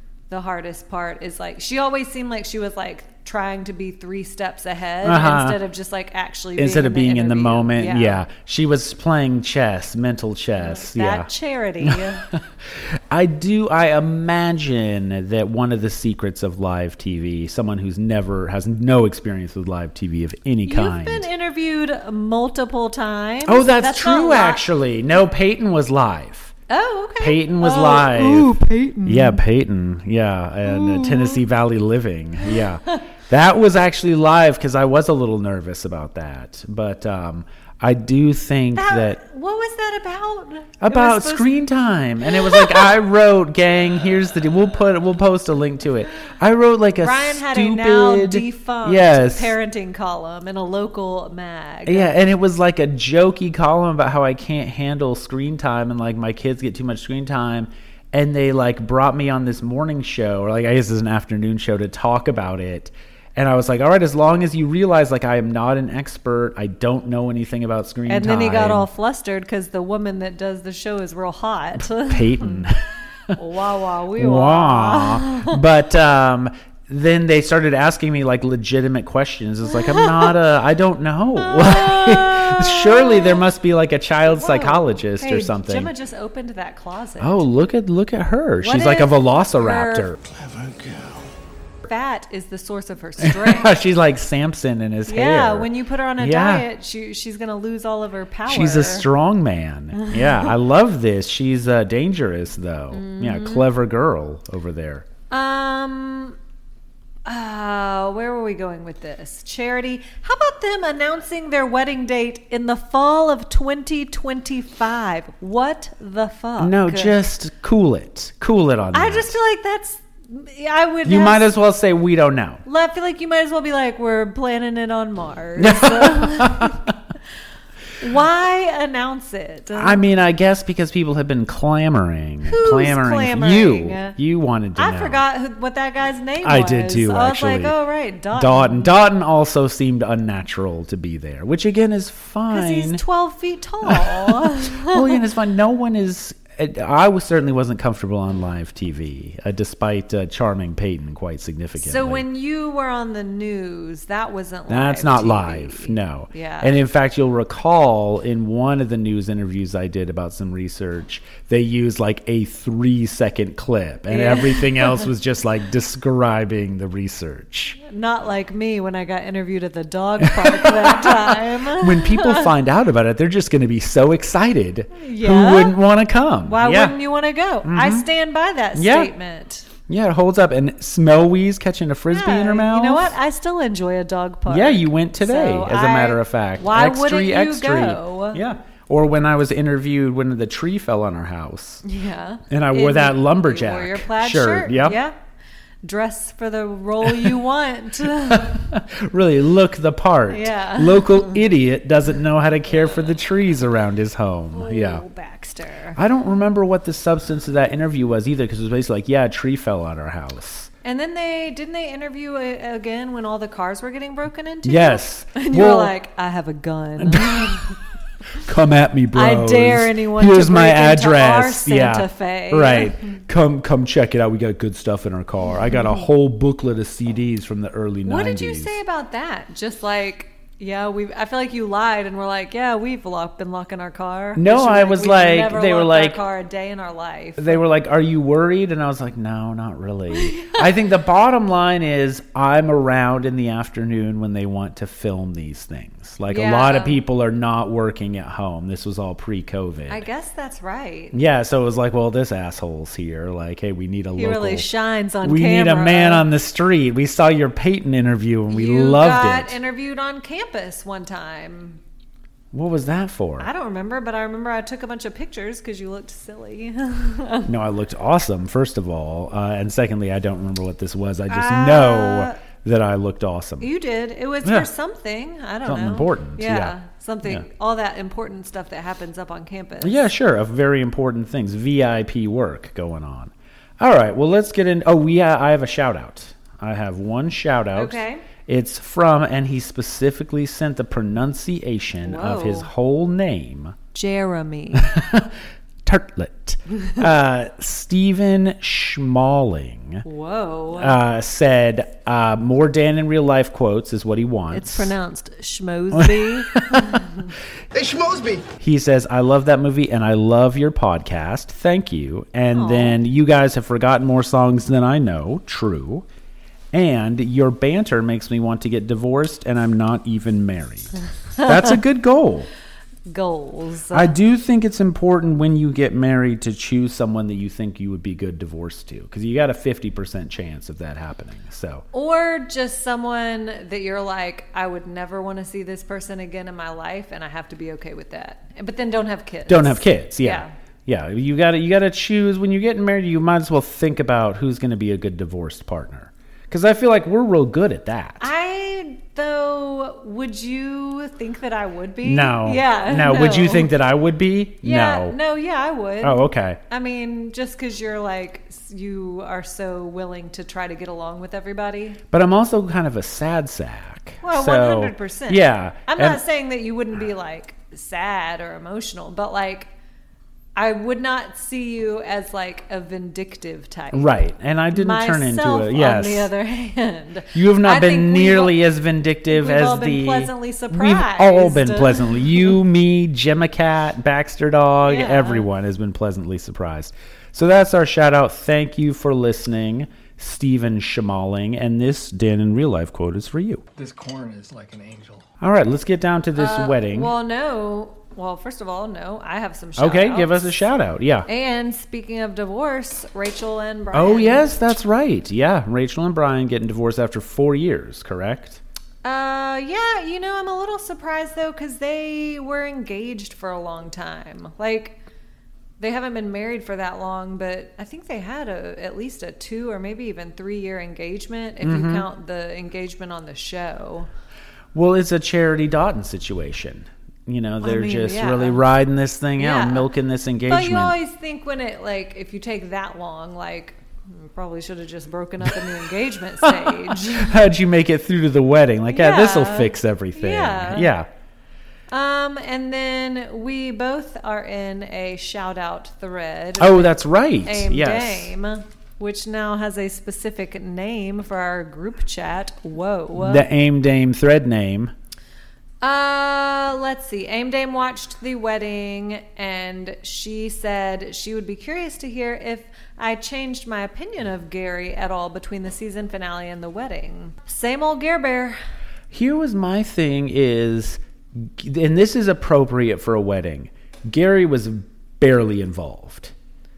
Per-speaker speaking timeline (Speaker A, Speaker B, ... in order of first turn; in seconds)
Speaker A: 0.3-8.2, 10.6-12.2, 20.6-24.6, 26.7-29.4, 30.6-31.4, 32.5-33.0, 38.7-41.5, 42.2-42.9, 47.0-52.2, 68.1-72.7, 73.3-75.6, 79.8-80.3, 81.4-83.4, 84.3-87.5, 88.6-90.1, 91.8-93.8, 95.1-99.1, 100.0-100.5, 102.9-103.7, 105.3-106.4, 107.2-117.2, 118.9-121.5, 122.6-126.8, 128.0-130.0, 132.4-134.2, 134.8-138.9, 142.5-145.2, 151.8-156.7, 164.1-165.1, 167.8-172.5, 174.9-175.8, 176.4-179.7, 182.1-188.4, 191.8-195.1, 195.8-198.6, 200.3-201.4, 202.9-203.2, 204.5-206.0, 210.8-217.7, 219.1-222.9, 228.0-237.7, 240.1-240.6, 246.3-247.0, 249.9-251.1, 254.2-256.2, 258.5-261.8, 263.4-267.5, 271.3-272.4, 273.6-280.0, 287.8-288.2, 292.0-292.7, 293.9-294.9, 300.0-301.0, 304.5-307.2, 312.5-313.0, 323.1-324.1, 331.9-340.5, 348.2-353.7, 354.6-362.0, 364.2-369.7, 370.6-374.1, 374.7-378.6, 379.3-382.5, 384.8-385.5, 396.4-400.6, 401.2-404.5, 409.0-415.0, 415.8-424.1, 427.6-428.6, 429.4-429.9, 430.5-437.4, 438.9-440.9, 441.9-453.4, 455.8-468.6
Speaker B: 5.0-5.6, 6.5-11.3, 11.8-21.3, 23.4-26.5, 27.2-28.5, 29.0-39.2, 40.8-49.5, 51.9-68.9, 71.8-73.3, 74.2-85.9, 87.2-90.2, 93.2-96.7, 98.5-105.0, 116.6-119.4, 121.0-122.6, 125.6-126.9, 129.7-135.2, 136.4-137.7, 138.3-143.0, 143.8-152.2, 154.7-167.8, 170.2-177.0, 177.6-178.1, 178.7-179.1, 179.9-183.2, 184.5-191.8, 192.5-195.0, 197.1-197.3, 198.0-205.0, 205.9-210.7, 214.6-215.9, 217.0-217.6, 218.4-228.7, 234.3-236.2, 237.4-250.0, 251.1-254.7, 255.2-259.6, 262.5-263.5, 267.4-273.7, 274.4-274.7, 275.6-277.4, 279.8-293.8, 294.7-300.0, 300.8-304.9, 305.9-307.1, 308.6-316.1, 316.7-322.5, 323.9-331.8, 339.5-348.3, 352.0-355.1, 356.0-356.6, 362.1-366.2, 373.9-376.3, 377.3-393.6, 395.4-397.1, 399.8-401.3, 403.9-408.6, 421.6-422.1, 424.7-430.9, 435.4-435.8, 436.4-441.1, 446.6-448.3, 453.1-454.9, 469.1-476.3
Speaker C: 307.7-308.4, 393.8-395.2